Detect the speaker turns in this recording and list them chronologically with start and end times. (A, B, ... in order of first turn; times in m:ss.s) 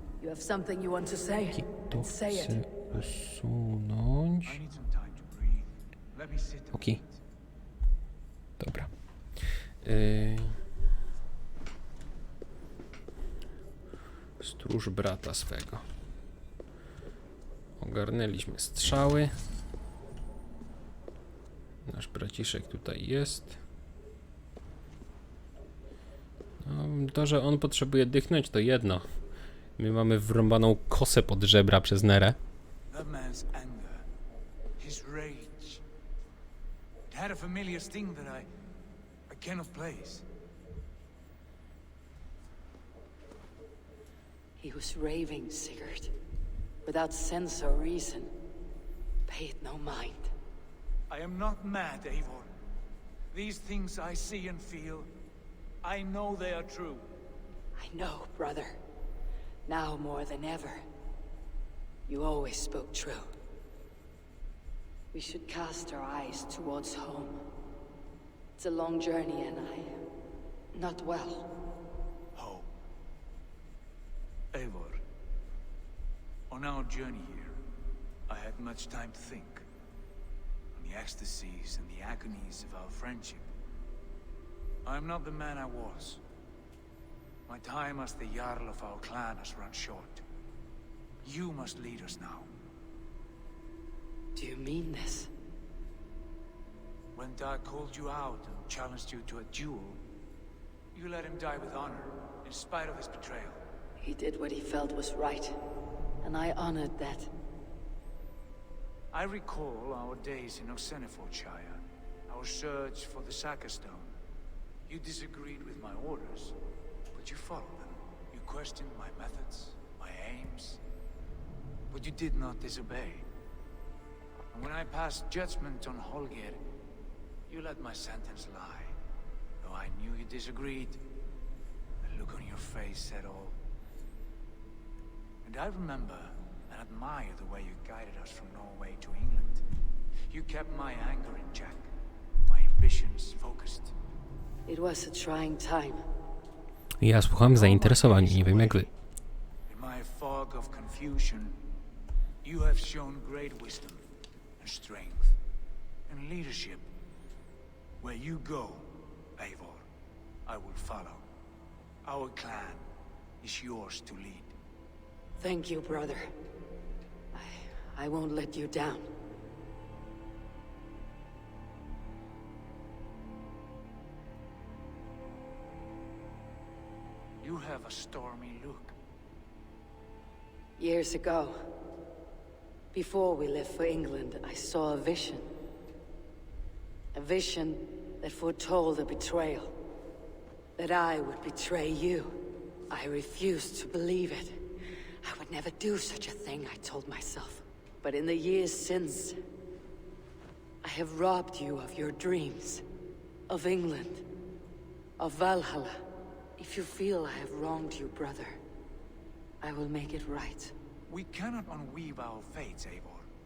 0:00.2-0:02.6 A
0:01.5-0:04.6 B
0:04.4-0:07.2 C
0:08.6-0:08.9 B
0:09.8-0:10.5 B
0:14.4-0:15.8 B
0:17.8-0:19.3 B
0:21.9-0:23.6 B
0:26.6-0:29.0 B
0:29.8-0:32.4 B
0:32.9-0:34.0 C
0:34.8-0:35.8 C
0:37.1-0:38.5 C
0:39.3-0:40.2 C
0:44.6-0:46.1 A
0:46.8-0:48.3 A
0:49.3-0:50.3 A
0:51.1-0:52.5 C
0:53.3-0:55.1 C
0:55.8-0:57.1 C
0:57.8-0:58.8 A
0:59.7-1:00.8 A
1:02.1-1:03.3 A
1:05.1-1:07.4 A
1:08.6-1:10.0 A
1:10.7-1:11.5 A
1:12.4-1:12.7 C
1:14.5-1:15.0 C
1:16.5-1:17.6 C
1:18.3-1:19.6 C
1:20.8-1:23.5 C
1:24.8-1:26.2 C
1:27.5-1:30.2 C
1:31.2-1:32.5 C
1:34.4-1:35.3 A
1:37.2-1:40.0 C
1:40.9-1:43.6 C
1:44.0-1:45.5 A
1:46.2-1:47.3 A
1:49.1-1:54.1 C
1:54.9-1:56.6 C
1:57.2-2:00.8 C
2:01.9-2:03.3 C
2:04.5-2:06.6 C
2:07.5-2:08.9 C
2:09.6-2:11.1 C
2:12.0-2:13.6 C
2:15.4-2:19.6 C
2:20.3-2:21.9 C
2:22.5-2:23.9 C
2:24.7-2:26.0 A
2:27.0-2:28.9 B
2:27.5-2:28.9 C
2:29.7-2:31.6 C
2:32.4-2:34.0 C
2:34.6-2:35.4 C
2:36.1-2:36.9 C
2:38.0-2:39.8 C
2:40.5-2:41.2 C
2:42.1-2:42.8 C
2:43.4-2:44.5 C
2:45.4-2:46.3 A
2:47.3-2:49.1 A
2:57.4-2:58.9 C
3:00.8-3:01.6 A
3:02.9-3:05.5 A
3:07.2-3:09.8 A
3:10.8-3:14.6 A
3:15.2-3:19.4 A
3:20.8-3:22.8 A
3:23.5-3:24.3 A
3:25.2-3:26.0 A
3:26.6-3:28.6 A
3:29.6-3:30.8 A
3:31.1-3:33.3 C